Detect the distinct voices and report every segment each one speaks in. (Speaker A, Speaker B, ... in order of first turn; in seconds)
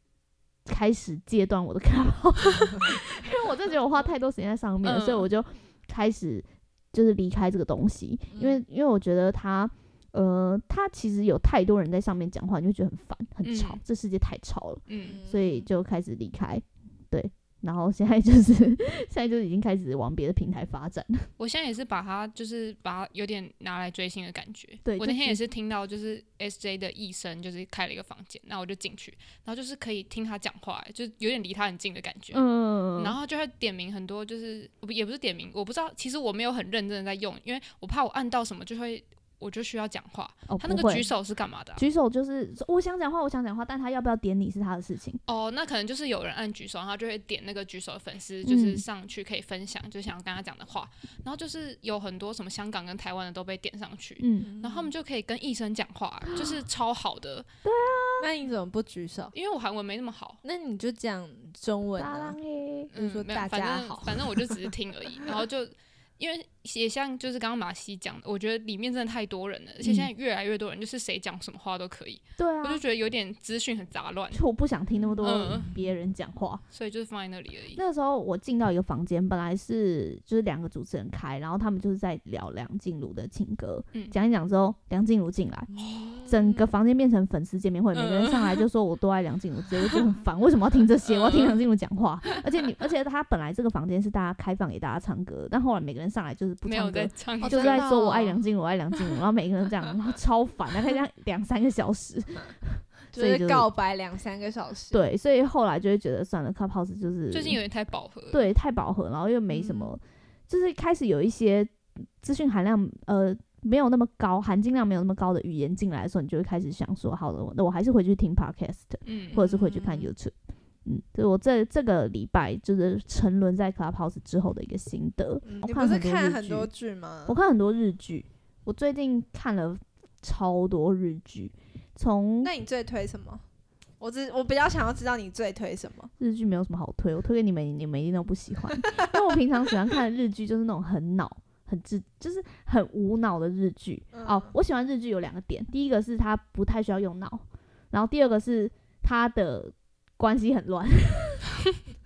Speaker A: 0.7-21.3, 24.8-25.4, 32.3-33.2, 40.5-41.1, 41.8-45.2, 48.4-48.8, 54.2-54.5, 57.6-58.3, 62.0-62.9, 69.8-70.1, 72.4-72.8, 74.3-76.6, 77.7-85.7, 86.2-103.7, 104.9-107.6, 108.3-120.3, 120.8-126.7, 127.2-132.5, 136.2-151.4
Speaker B: 4.8-5.3, 13.4-13.8, 14.9-15.2, 21.4-32.4, 33.0-41.8, 45.3-57.5, 59.3-60.4, 62.9-74.4, 75.2-75.7, 76.7-77.8, 85.8-86.2, 87.9-88.6, 91.0-91.6, 96.6-98.2, 107.3-108.5, 119.0-120.1
Speaker C: 8.3-8.6, 15.0-15.7, 54.4-54.9, 58.2-59.3, 60.4-62.4, 62.9-64.6, 85.7-86.5, 97.4-98.3, 103.1-105.0, 109.5-109.8, 125.4-127.4, 132.4-133.4, 134.0-136.1, 144.1-144.5